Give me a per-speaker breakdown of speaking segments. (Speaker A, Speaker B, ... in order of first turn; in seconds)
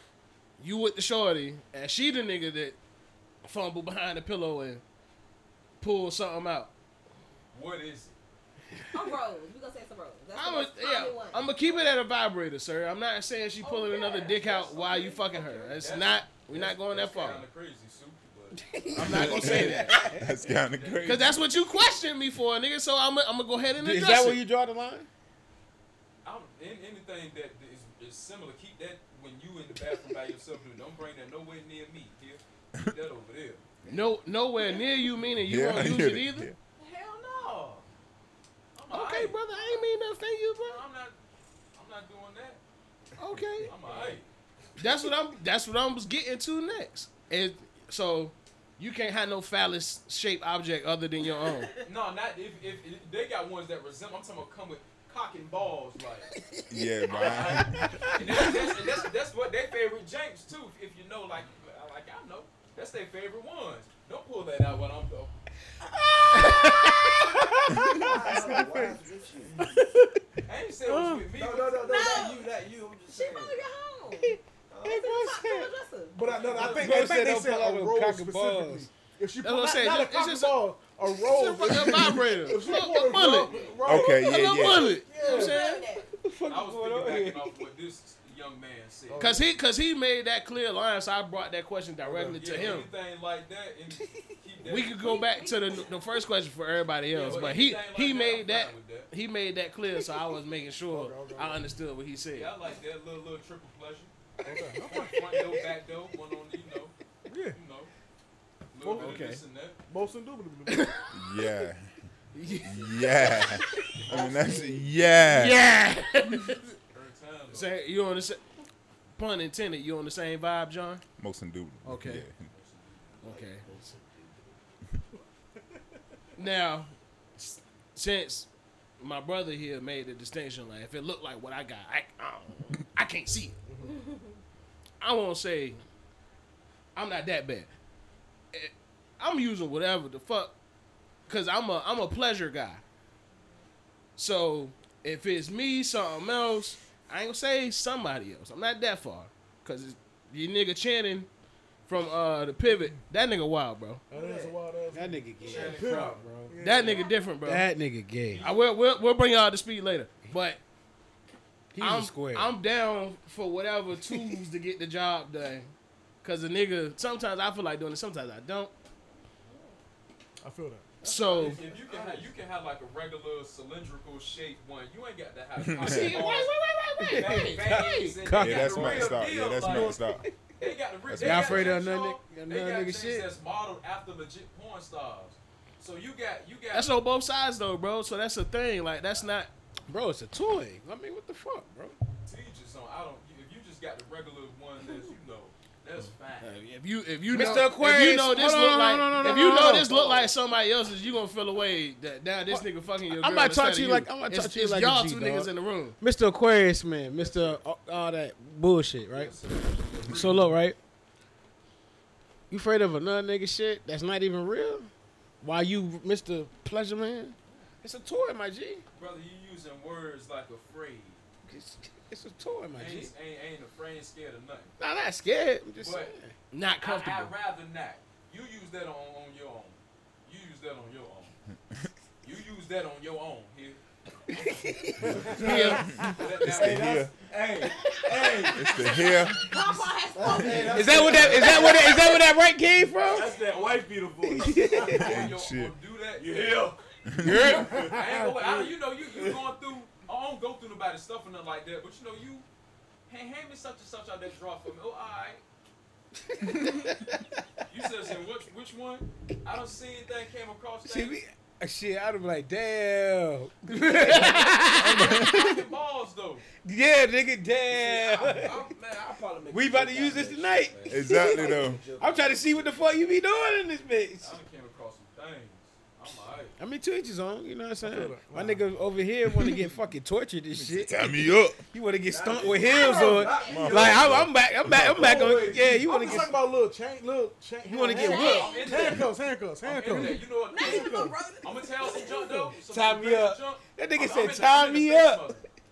Speaker A: 0.6-2.8, 3.4-4.8, 5.8-6.7, 10.3-17.4, 18.9-20.0, 21.0-24.4, 33.9-36.5, 38.9-40.8, 43.2-43.7, 44.8-51.7, 79.4-80.6, 81.2-85.8, 89.2-92.9, 94.6-102.5, 109.0-109.4, 110.7-111.1, 112.3-113.2, 115.2-116.6, 117.5-118.4, 119.2-121.0, 121.8-122.2, 123.2-123.7, 126.4-128.5, 129.0-133.6, 135.0-135.8, 136.9-137.7, 138.5-140.5, 141.3-142.8, 144.2-151.3, 151.9-154.0, 156.6-157.7, 158.4-160.6, 161.8-165.7, 166.2-168.7, 171.0-171.6, 186.7-189.5, 196.4-206.0, 226.5-227.3, 235.3-235.9, 264.3-264.6
Speaker B: 7.5-8.2, 15.6-18.6, 20.5-21.3, 26.2-33.6, 36.8-37.8, 38.8-39.7, 40.6-41.2, 41.7-42.6, 43.6-44.3, 51.8-56.3, 57.1-65.3, 70.5-72.1, 83.1-83.8, 86.5-89.4, 92.4-95.1, 97.1-99.1, 102.3-104.1, 104.9-106.9, 107.5-107.9, 108.7-109.8, 116.9-117.7, 122.5-123.1, 155.5-155.8, 171.1-180.0, 180.6-187.0, 192.2-196.6, 197.3-197.7, 207.2-207.6, 209.1-210.6, 218.9-221.2, 222.8-224.8, 225.8-226.1, 226.8-231.3, 232.2-233.8, 235.4-237.1, 241.1-241.4, 243.2-243.9, 244.7-246.7, 247.4-252.5, 253.1-255.4, 257.7-261.2, 264.1-266.5, 274.2-276.6, 287.9-289.1, 289.6-295.5
Speaker C: 8.9-11.5, 13.6-15.8, 51.5-51.8, 71.8-72.5, 73.1-76.7, 84.2-86.1, 95.0-96.0, 133.8-134.3, 156.8-157.4, 239.4-242.1, 282.6-283.8, 287.9-289.0, 290.4-292.6
Speaker D: 18.5-20.3, 23.8-25.1, 57.4-58.9, 66.3-68.7, 74.2-75.7, 76.6-78.9, 86.1-87.6, 104.5-105.6, 154.9-156.6, 157.4-158.5, 161.7-162.6, 175.8-180.3, 181.2-183.3, 189.9-192.0, 197.3-200.2, 202.5-209.4, 210.1-210.8, 212.5-214.9, 215.4-218.8, 221.4-223.1, 224.8-226.3, 234.3-236.2, 240.6-243.3, 244.2-245.2, 247.2-248.3, 256.3-257.4, 260.9-265.7, 266.6-268.7, 269.5-274.4, 276.6-286.4, 287.6-288.5, 292.6-295.5
Speaker E: 19.0-21.4, 35.4-36.6, 56.7-57.7, 83.9-85.0, 111.1-111.9, 112.6-115.6, 121.2-122.5, 175.6-176.2, 178.3-180.2, 181.1-181.8, 235.0-237.1, 238.5-239.4, 245.0-245.8, 247.1-247.7, 270.9-271.8, 280.5-281.6, 283.4-285.2
Speaker F: 33.8-34.1, 43.8-44.2, 67.8-69.6, 71.3-73.6, 74.7-75.1, 76.4-76.7, 83.5-83.8, 114.2-114.7, 123.1-124.6, 154.1-154.6, 155.4-156.2, 171.0-172.3, 235.2-235.6, 236.6-239.6, 240.1-242.2, 243.0-245.2, 246.2-246.8, 247.4-249.4, 267.7-273.1, 282.0-284.2, 284.9-285.8
Speaker G: 67.8-69.0, 69.5-70.1, 70.9-71.3, 76.1-84.2, 85.0-85.7, 89.1-89.5, 92.0-92.9, 100.9-101.7, 104.4-105.3, 107.3-107.6, 108.8-109.3, 109.9-111.0, 133.7-134.0, 154.1-157.1, 170.4-170.9, 199.2-199.8, 277.8-278.6, 285.0-291.2